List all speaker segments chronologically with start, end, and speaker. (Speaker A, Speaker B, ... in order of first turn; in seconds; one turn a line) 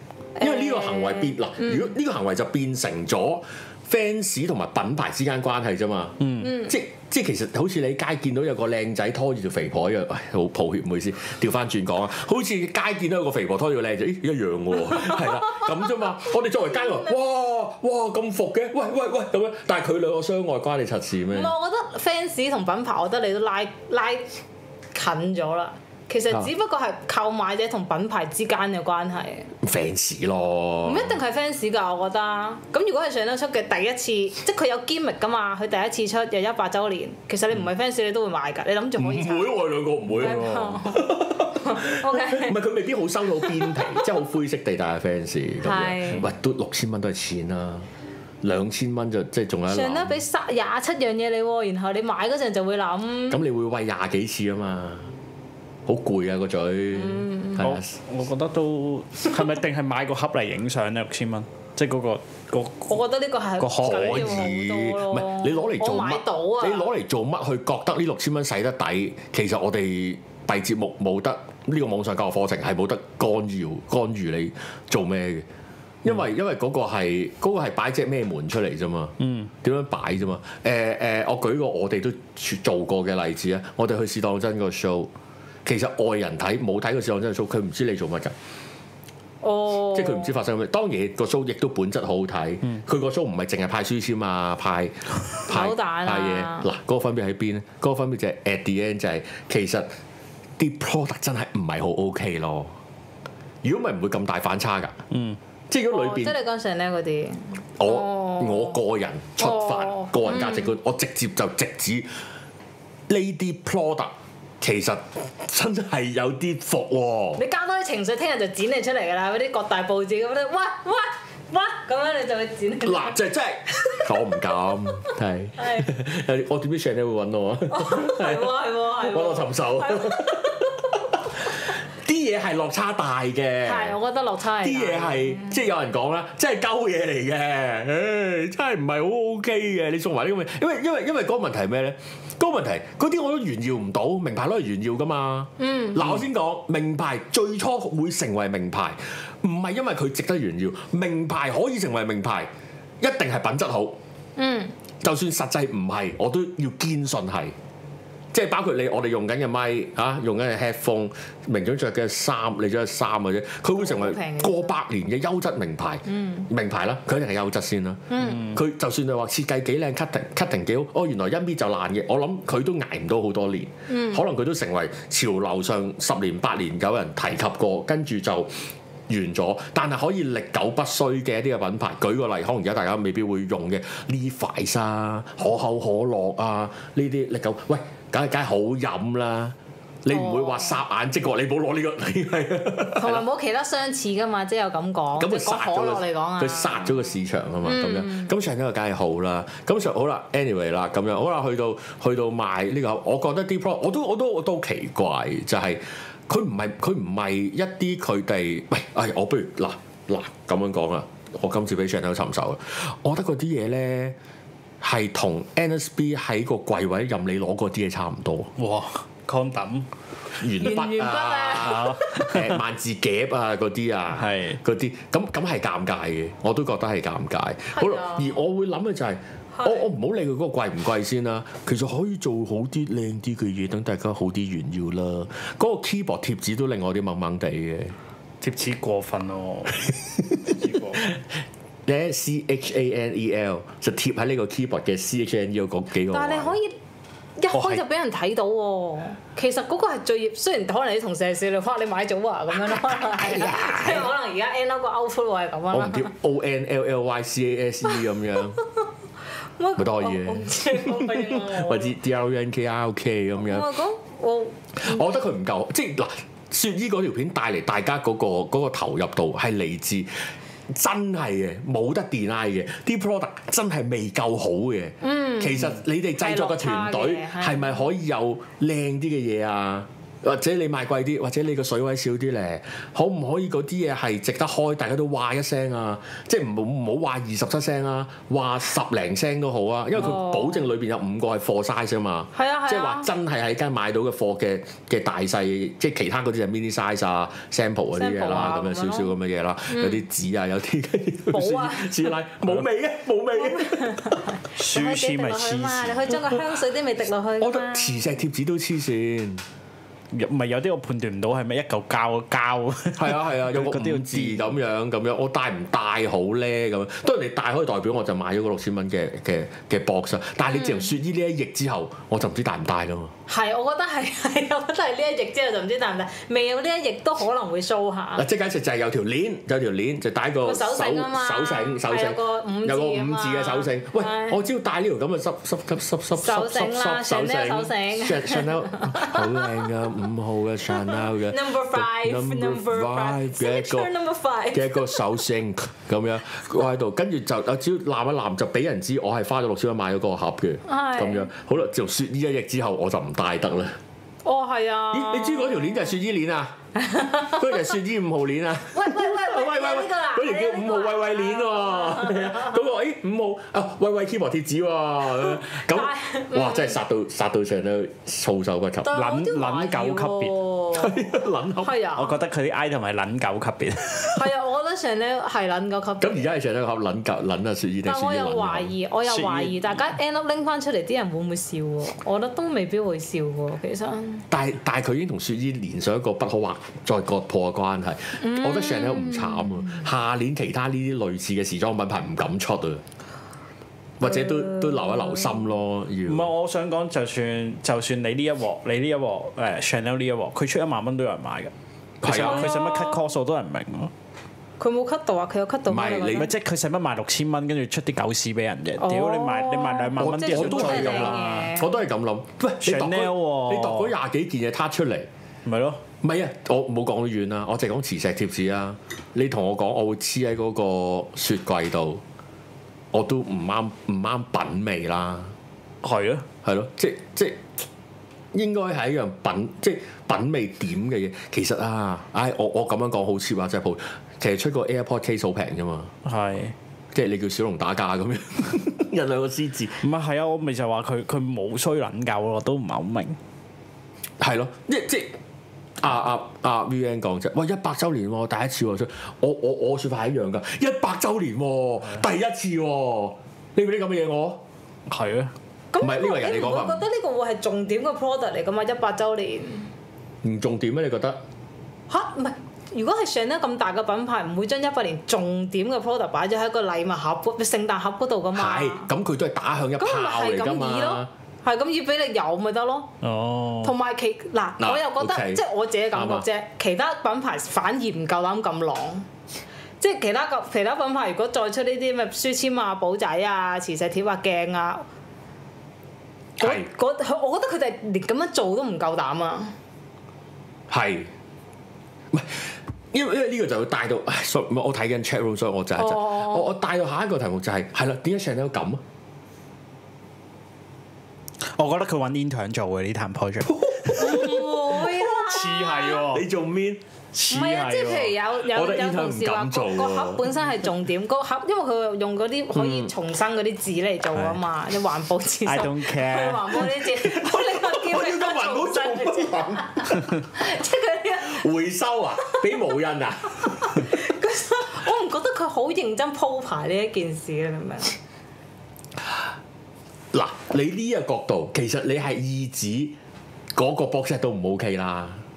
Speaker A: 0.4-1.9
Speaker B: 0.4-21.5
Speaker C: 6.2-6.5
Speaker A: 6.4-6.8
Speaker A: 15.2-15.7
Speaker A: 16.8-17.1
Speaker A: 21.3-24.3
Speaker A: 24.9-29.5
Speaker B: 29.6-31.2
Speaker A: 30.9-42.6
Speaker B: 39.0-47.9
Speaker C: 40.1-40.8
Speaker A: 43.4-44.0
Speaker A: 45.6-46.3
Speaker B: 48.4-50.2
Speaker A: 49.7-53.4
Speaker B: 53.3-55.1
Speaker B: 55.9-57.9
Speaker A: 56.9-57.7
Speaker C: 57.6-62.9
Speaker A: 62.9-66.9
Speaker C: 63.6-64.4
Speaker B: 63.8-75.5
Speaker B: 76.0-85.1
Speaker C: 79.2-79.5
Speaker B: 85.7-88.3
Speaker A: 89.4-90.4
Speaker B: 89.9-99.9
Speaker A: 95.5-96.7
Speaker B: 100.6-102.7
Speaker B: 103.6-105.0
Speaker C: 105.1-105.4
Speaker B: 105.7-106.4
Speaker A: 105.9-108.8
Speaker B: 107.8-112.1
Speaker A: 109.4-110.8
Speaker B: 113.1-117.4
Speaker A: 117.4-123.2
Speaker B: 122.8-134.0
Speaker A: 123.7-124.1
Speaker A: 125.6-125.9
Speaker A: 127.7-130.6
Speaker A: 133.7-135.6
Speaker B: 134.6-152.5
Speaker A: 145.6-146.2
Speaker B: 153.0-154.0
Speaker A: 154.4-154.7
Speaker B: 155.0-157.6
Speaker B: 158.3-178.5
Speaker A: 163.8-164.8
Speaker A: 166.1-166.5
Speaker A: 168.1-168.5
Speaker C: 168.2-168.6
Speaker A: 173.9-174.2
Speaker B: 179.1-193.3
Speaker A: 190.1-190.8
Speaker A: 193.0-198.3
Speaker B: 195.2-214.2
Speaker B: 214.8-218.5
Speaker C: 218.6-219.9
Speaker B: 220.4-238.0
Speaker A: 220.6-222.2
Speaker C: 221.6-222.6
Speaker C: 224.1-224.6
Speaker A: 227.8-228.3
Speaker A: 229.6-229.8
Speaker C: 238.4-241.1
Speaker B: 241.9-246.6
Speaker A: 246.1-246.8
Speaker A: 247.4-256.1
Speaker B: 252.7-254.1
Speaker B: 255.7-258.6
Speaker A: 257.9-258.4
Speaker A: 259.6-262.0
Speaker B: 259.8-263.7
Speaker A: 263.4-265.0
Speaker B: 264.8-270.1
Speaker B: 270.7-304.2
Speaker A: 275.0-277.9
Speaker A: 290.0-290.7
Speaker A: 292.4-293.1
Speaker A: 298.0-299.1
Speaker A: 299.7-300.0
Speaker A: 301.3-302.2
Speaker A: 303.4-308.0
Speaker C: 304.5-306.2
Speaker B: 307.4-309.4
Speaker C: 310.1-314.5
Speaker B: 313.0-323.1
Speaker A: 320.5-320.9
Speaker A: 323.3-328.2
Speaker B: 328.2-343.9
Speaker A: 330.4-334.4
Speaker A: 336.2-339.7
Speaker A: 340.7-345.2
Speaker B: 344.5-353.8
Speaker A: 350.7-351.3
Speaker A: 354.2-355.9
Speaker B: 354.9-356.6
Speaker A: 356.8-357.6
Speaker B: 357.3-368.9
Speaker A: 358.7-362.6
Speaker A: 365.2-366.8
Speaker A: 368.9-371.1
Speaker C: 368.9-370.4
Speaker B: 370.7-371.8
Speaker A: 371.6-372.2
Speaker C: 371.9-374.3
Speaker A: 374.2-376.3
Speaker B: 376.0-378.7
Speaker A: 377.9-384.3
Speaker C: 379.1-379.5
Speaker B: 384.3-392.8
Speaker A: 388.2-389.9
Speaker B: 394.0-396.3
Speaker A: 394.0-395.4
Speaker C: 396.1-401.5
Speaker B: 402.0-402.5
Speaker C: 402.1-403.9
Speaker A: 402.1-403.0
Speaker A: 404.6-406.3
Speaker B: 405.7-406.3
Speaker C: 406.1-411.5
Speaker A: 408.8-411.8
Speaker B: 410.0-415.1
Speaker C: 412.6-413.9
Speaker C: 415.5-415.8
Speaker B: 416.0-422.0
Speaker B: 422.9-425.3
Speaker C: 425.8-426.3
Speaker B: 426.4-427.4
Speaker B: 428.3-435.9
Speaker C: 436.0-436.6
Speaker B: 436.9-439.8
Speaker C: 439.8-443.2
Speaker B: 444.2-445.1
Speaker B: 445.8-454.4
Speaker C: 454.9-455.3
Speaker A: 455.7-459.7
Speaker B: 455.8-456.9
Speaker B: 460.2-461.2
Speaker A: 461.9-468.9
Speaker B: 468.3-471.1
Speaker A: 469.8-472.9
Speaker C: 473.0-473.8
Speaker A: 473.6-479.1
Speaker B: 474.6-476.3
Speaker A: 479.8-484.9
Speaker B: 486.4-486.7
Speaker A: 486.4-489.5
Speaker B: 490.7-491.1
Speaker B: 492.1-498.8
Speaker A: 495.8-496.5
Speaker C: 501.5-506.3
Speaker B: 503.5-504.6
Speaker A: 504.0-506.0
Speaker B: 506.0-506.8
Speaker C: 507.1-508.2
Speaker A: 507.3-521.5
Speaker B: 508.4-510.3
Speaker B: 512.5-512.9
Speaker C: 515.5-516.7
Speaker B: 517.0-520.0
Speaker B: 521.2-523.9
Speaker A: 522.3-522.6
Speaker A: 523.6-528.0
Speaker B: 530.1-533.0
Speaker B: 533.5-535.2